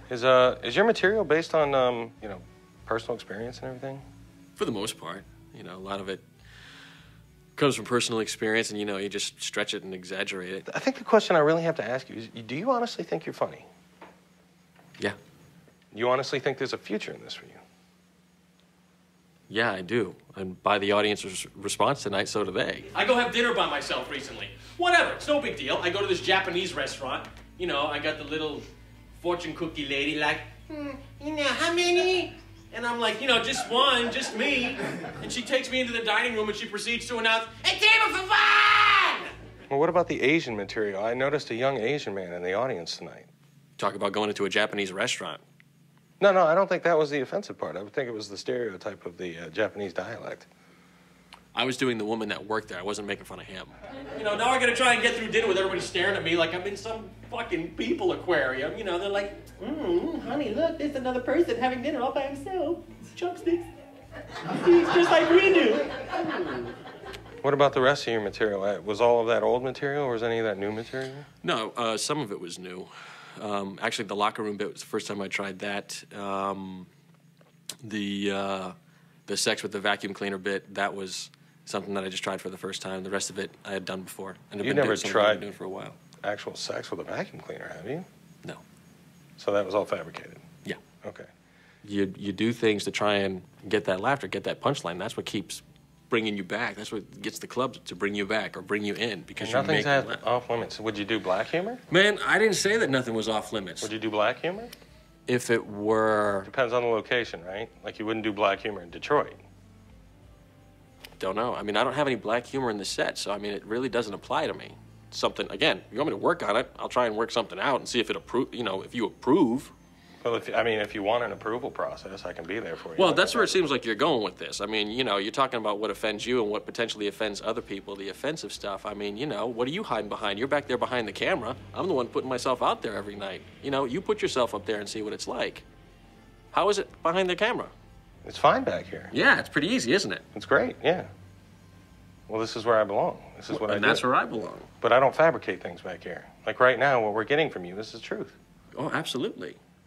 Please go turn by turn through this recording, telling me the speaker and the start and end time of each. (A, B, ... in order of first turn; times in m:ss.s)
0:00.1-0:04.0 A
0:04.6-0:06.2 B
0:07.6-0:10.7 B
0:10.7-0:13.7 A
0:15.9-0:17.6 A
0:19.5-0:28.7 B
0:29.2-0:39.3 B
0:39.7-0:43.3 A
0:43.8-0:45.4 B
0:46.2-0:50.5 A
0:51.5-1:03.6 B
1:04.5-1:06.7 B
1:07.4-1:11.3 A
1:11.4-1:16.9 B
1:17.8-1:18.7 B
1:19.3-1:26.0 B
1:24.6-1:25.4 A
1:26.2-1:28.1 A
1:29.4-1:30.4 A
1:31.0-1:31.3 A
1:31.8-1:40.2 B
1:39.4-1:41.8 A
1:41.9-1:43.9 B
1:43.8-1:44.7 A
1:45.3-1:46.5 B
1:46.5-1:49.4 A
1:51.2-1:59.7 B
2:00.2-2:03.6 A
2:03.0-2:15.6 B
2:16.5-2:17.7 B
2:18.2-2:19.1 A
2:19.1-2:20.2 B
2:20.3-2:21.1 A
2:22.3-2:24.1 A
2:23.5-2:24.7 B
2:24.8-2:28.4 A
2:28.8-2:29.6 B